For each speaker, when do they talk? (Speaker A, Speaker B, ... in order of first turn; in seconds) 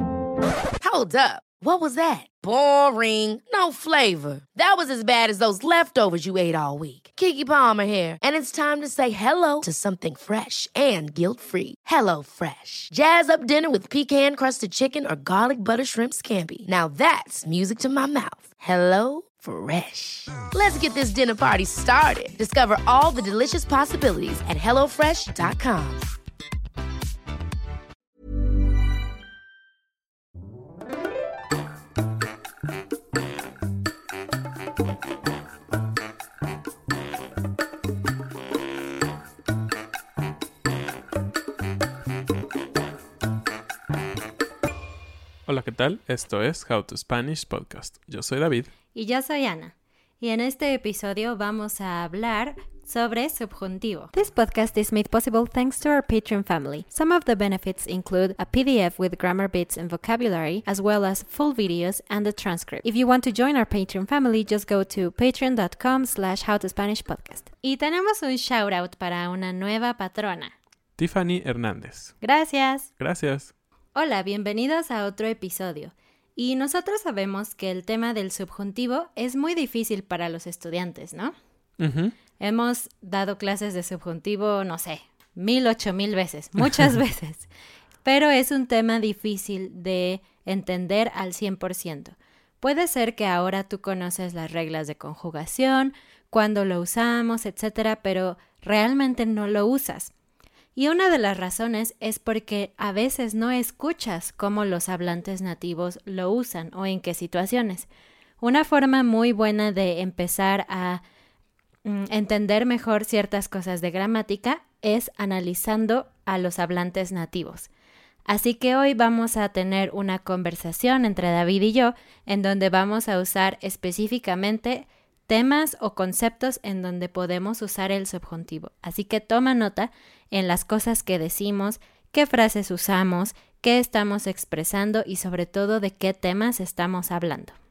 Speaker A: 0.8-26.1
Speaker B: 45.5-48.7, 71.0-72.2, 73.0-73.5, 81.8-82.2
Speaker C: 48.9-70.5, 72.2-72.9, 74.0-81.3, 82.4-87.5, 88.0-100.1, 100.8-107.9, 108.4-111.0, 111.8-117.7, 118.3-137.6